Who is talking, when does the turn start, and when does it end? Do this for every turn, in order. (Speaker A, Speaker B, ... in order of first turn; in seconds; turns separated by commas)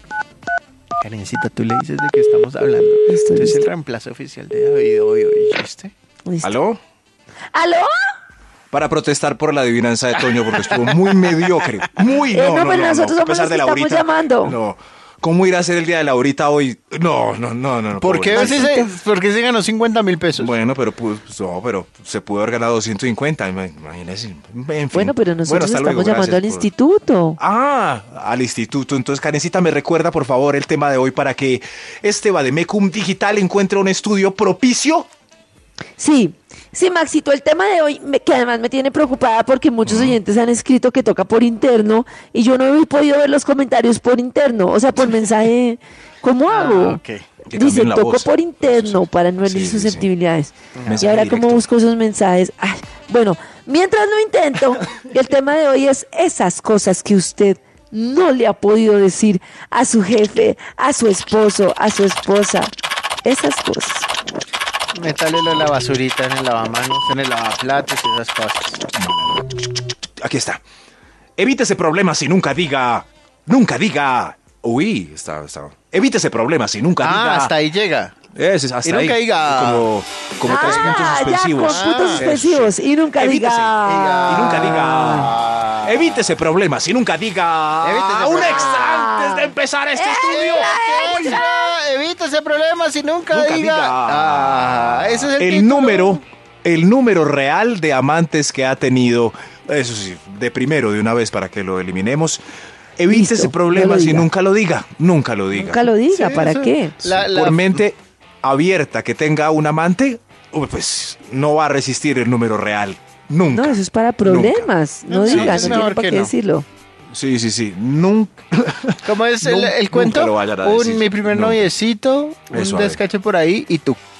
Speaker A: 1.0-5.9, Speaker B: 3.1-3.6, Speaker B: 6.2-6.5, Speaker C: 6.4-6.8, Speaker B: 7.5-7.9, Speaker C: 8.7-18.8, Speaker B: 12.3-14.6, Speaker A: 17.9-20.5, Speaker B: 18.3-18.8, Speaker C: 20.4-26.7, Speaker B: 24.9-27.4, Speaker C: 27.4-35.1, Speaker B: 36.0-47.0, Speaker C: 39.8-40.2, Speaker A: 46.5-47.2, Speaker C: 47.5-50.0, Speaker B: 47.5-62.7, Speaker A: 50.8-51.1, Speaker C: 50.9-51.6, Speaker B: 63.2-64.1, Speaker A: 64.9-68.8, Speaker C: 68.9-70.6, Speaker C: 71.4-77.5, Speaker A: 77.0-78.1, Speaker C: 78.3-91.4, Speaker A: 78.8-79.9, Speaker B: 80.4-85.2, Speaker A: 80.5-82.5, Speaker A: 83.8-86.2, Speaker A: 87.8-88.9, Speaker B: 88.3-91.7, Speaker A: 90.1-96.2, Speaker C: 93.3-102.4, Speaker C: 103.0-105.9, Speaker B: 103.1-104.3, Speaker B: 105.5-107.0, Speaker A: 106.1-107.8, Speaker C: 107.0-114.7, Speaker B: 113.5-116.7, Speaker A: 115.1-116.3, Speaker C: 115.2-115.9, Speaker C: 117.1-121.7, Speaker A: 119.0-124.0, Speaker C: 122.5-123.0